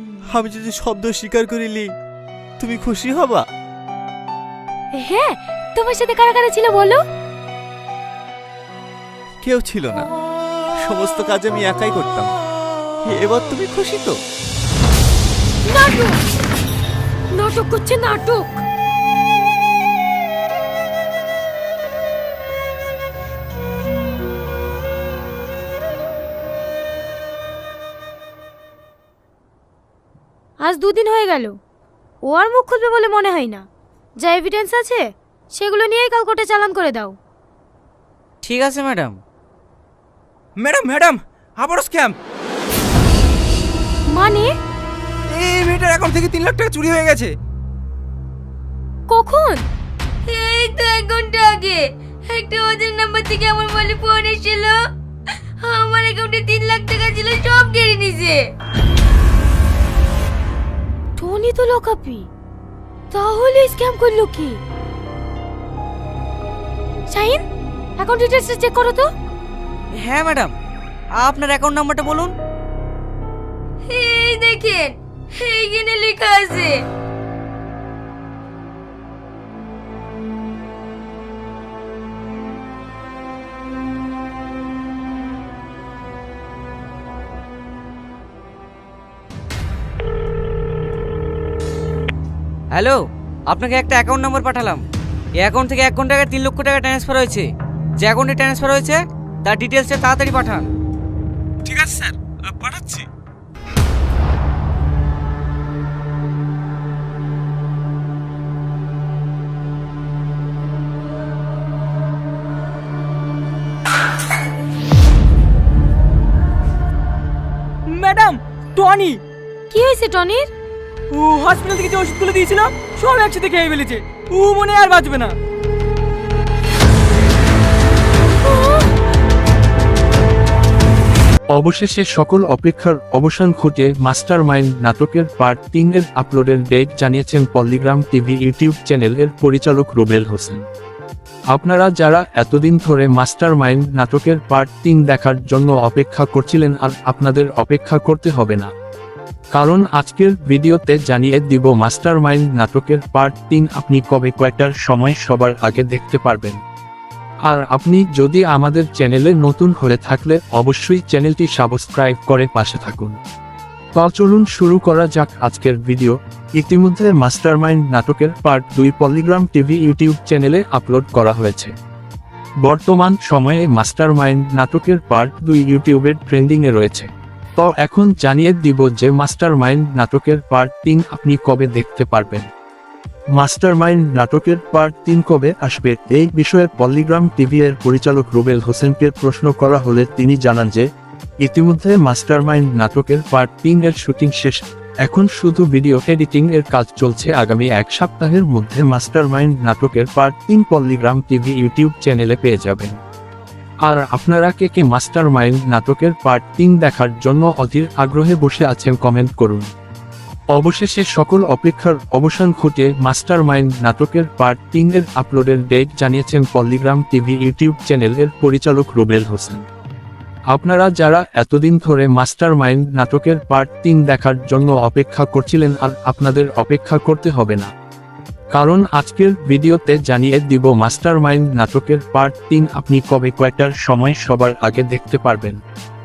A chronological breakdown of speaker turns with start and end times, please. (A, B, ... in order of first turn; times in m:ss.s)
0:00.3-0:01.9 A
0:02.6-0:03.5 A
0:05.0-0:07.0 B
0:09.4-0:10.1 A
0:10.8-0:12.4 A
0:13.1-0:14.2 A
0:15.7-0:16.2 B
0:17.4-0:18.6 B
0:30.6-0:31.5 B
0:32.3-0:33.6 B
0:34.2-0:35.0 B
0:35.5-0:37.2 B
0:38.4-0:39.2 C
0:40.6-0:42.1 D
0:44.1-0:44.5 B
0:45.4-0:47.1 D
0:49.1-0:49.6 B
0:50.3-0:54.8 E
0:55.6-0:58.4 E
1:01.2-1:02.3 B
1:03.1-1:04.6 B
1:07.1-1:07.4 B
1:08.0-1:09.1 B
1:10.0-1:10.5 C
1:11.2-1:12.3 C
1:13.9-1:16.8 E
1:32.7-1:34.8 C
1:35.4-1:37.5 C
1:38.0-1:40.7 C
1:57.9-1:59.2 F
1:59.7-2:00.5 B
2:01.1-2:05.4 F
2:08.5-2:08.8 B
2:11.5-2:20.6 G
2:21.5-2:28.7 G
2:29.5-2:36.6 G
2:37.5-2:43.2 G
2:44.0-2:51.7 G
2:52.6-3:02.5 G
3:03.4-3:10.8 G
3:11.4-3:23.0 G
3:23.8-3:29.7 G
3:30.5-3:39.6 G
3:40.5-3:47.7 G
3:48.5-3:55.6 G